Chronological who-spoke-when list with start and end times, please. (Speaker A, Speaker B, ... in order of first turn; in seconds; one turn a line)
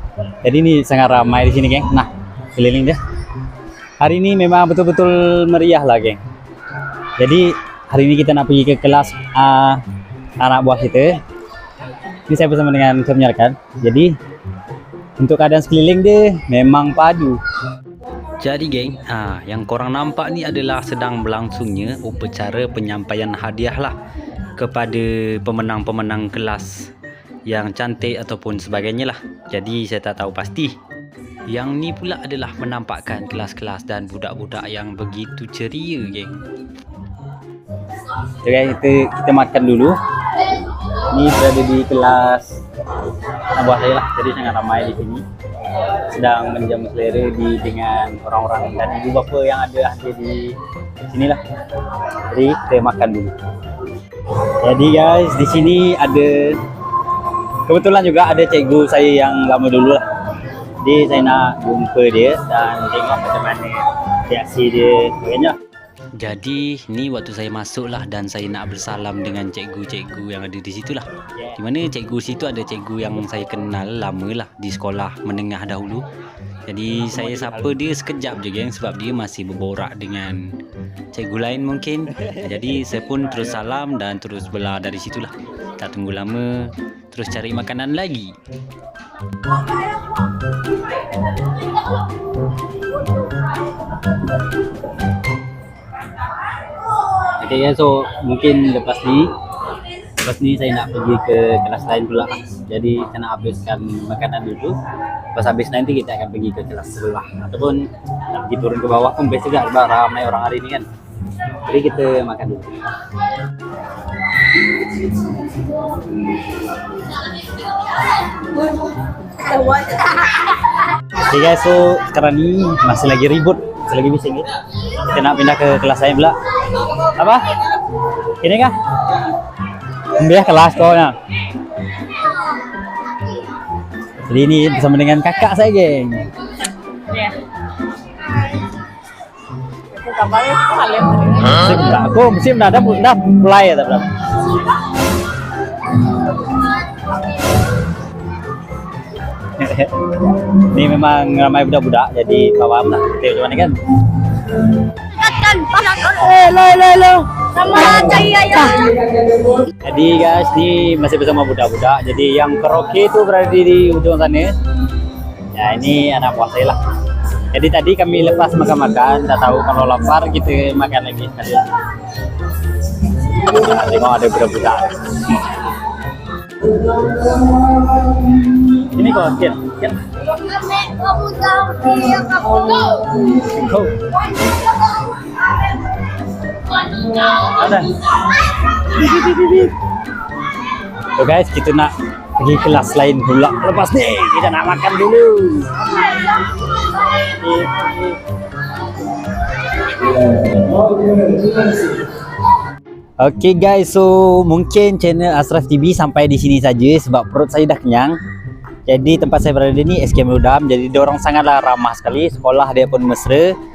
Speaker A: 0.4-3.0
Speaker A: 4.0-6.2
Speaker A: 7.2-9.8
Speaker A: 10.4-11.2
Speaker A: 12.3-14.1
Speaker A: 15.2-17.4
Speaker B: 18.4-23.9
Speaker B: 24.6-26.9
Speaker B: 27.5-30.7
Speaker B: 31.5-36.4
Speaker A: 38.4-40.0
Speaker A: 41.1-42.5
Speaker A: 43.5-45.2
Speaker A: 45.8-50.5
Speaker A: 51.1-51.4
Speaker A: 52.3-53.3
Speaker A: 54.6-56.6
Speaker A: 57.6-60.0
Speaker A: 60.8-65.5
Speaker B: 66.2-76.0
Speaker A: 71.3-71.6
Speaker B: 76.7-80.5
Speaker A: 77.1-77.7
Speaker B: 81.1-88.3
Speaker A: 97.4-99.3
Speaker A: 100.2-104.8
Speaker A: 105.3-110.8
Speaker A: 111.6-112.8
Speaker A: 121.3-127.4
Speaker A: 128.4-128.7
Speaker A: 130.2-131.2
Speaker A: 134.2-136.2
Speaker C: 139.9-141.5
Speaker A: 141.4-144.1
Speaker A: 149.6-153.8
Speaker C: 155.2-159.0
Speaker A: 159.8-164.5
Speaker A: 165.5-166.8
Speaker A: 167.5-171.7
Speaker A: 173.2-175.4
Speaker A: 178.8-180.0
Speaker C: 180.4-183.2
Speaker A: 183.2-184.0
Speaker A: 187.2-188.1
Speaker A: 188.8-189.7
Speaker A: 191.2-196.0
Speaker A: 197.1-198.2
Speaker A: 200.9-201.6
Speaker A: 203.2-208.2
Speaker A: 208.8-213.5